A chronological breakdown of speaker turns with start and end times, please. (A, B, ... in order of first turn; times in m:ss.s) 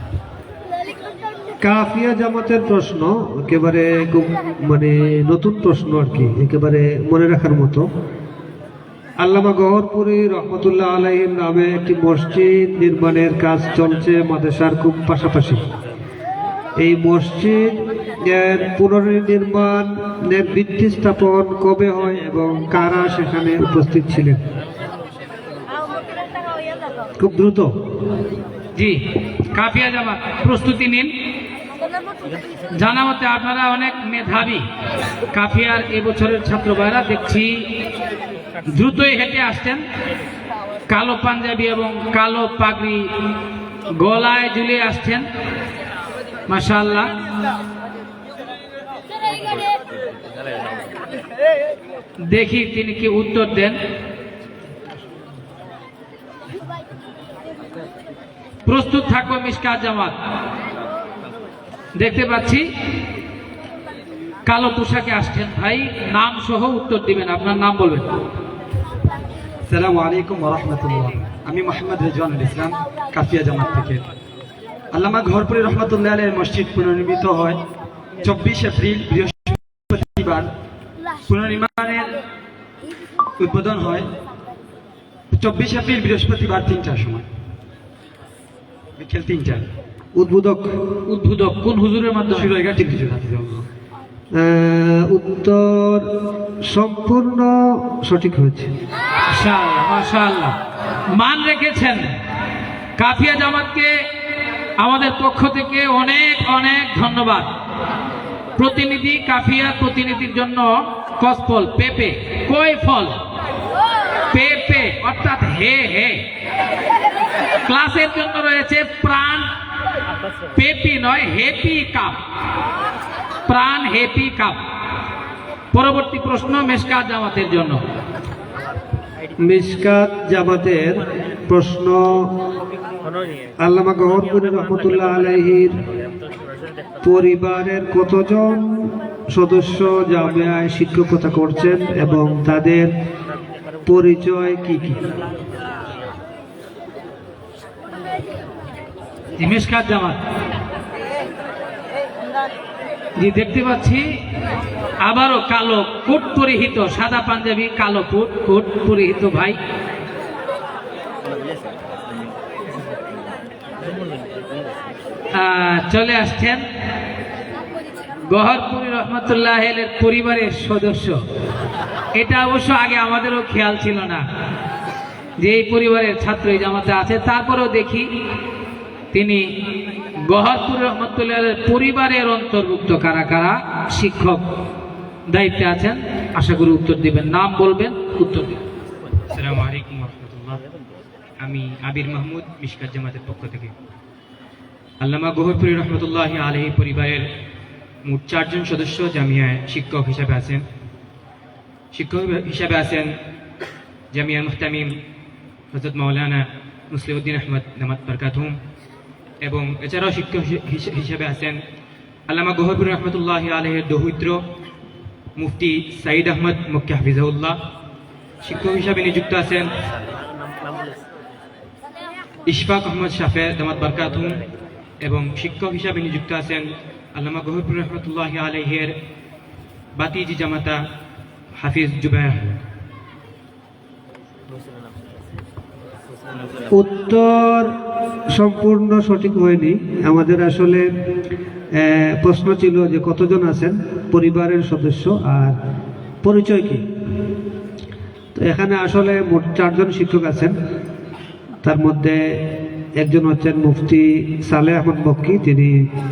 0:01.6-0:07.8 A
0:09.2-0:15.6 A
0:16.8-0:17.8 A
0:18.3-0:24.4 A
0:27.2-0:27.7 A
0:29.5-0:31.1 B
0:32.8-0:34.6 B
0:35.3-0:37.5 B
0:38.7-0:39.8 B
0:40.9-0:43.1 B
0:44.0-0:45.2 B
0:46.5-0:47.1 B
0:52.3-0:53.8 B
0:58.6-1:00.1 B
1:02.0-1:02.6 B
1:04.4-1:08.0 B
1:09.7-1:14.0 C
1:14.9-1:17.6 C
1:18.2-1:20.5 C
1:21.3-1:22.1 C
1:23.4-1:24.1 C
1:25.3-1:27.2 C
1:29.0-1:29.7 C
1:30.2-1:30.7 A
1:31.1-1:32.5 B
1:32.3-1:33.6 C
1:34.3-1:36.0 A
1:36.7-1:37.5 A
1:38.0-1:38.7 A
1:39.3-1:40.6 B
1:41.1-1:42.0 B
1:43.0-1:43.9 B
1:44.8-1:47.5 B
1:48.6-1:53.1 B
1:54.3-1:56.2 B
1:57.6-1:59.5 B
2:00.6-2:02.2 B
2:03.5-2:04.6 B
2:05.7-2:07.8 B
2:09.4-2:12.1 A
2:13.6-2:15.8 A
2:17.0-2:18.6 A
2:19.3-2:22.9 A
2:23.8-2:25.0 A
2:29.4-2:30.2 B
2:33.2-2:34.0 B
2:35.0-2:39.6 B
2:45.3-2:46.6 B
2:48.3-2:51.2 B
2:52.1-2:54.2 B
2:55.4-2:58.1 B
2:59.1-2:59.4 B
3:00.2-3:04.4 B
3:05.3-3:08.6 B
3:09.3-3:10.6 D
3:11.4-3:13.7 D
3:15.0-3:17.2 D
3:18.0-3:20.6 D
3:21.9-3:23.1 D
3:24.1-3:24.9 D
3:25.7-3:28.5 D
3:29.4-3:31.6 D
3:32.3-3:34.4 D
3:35.4-3:37.6 D
3:38.4-3:39.7 D
3:42.5-3:44.4 D
3:45.0-3:48.9 D
3:50.0-3:50.8 D
3:51.6-3:52.6 D
3:56.7-3:57.7 A
3:58.3-4:00.9 A
4:01.8-4:05.5 A
4:06.2-4:06.8 A
4:08.4-4:10.5 A
4:11.6-4:12.2 A
4:13.0-4:15.7 A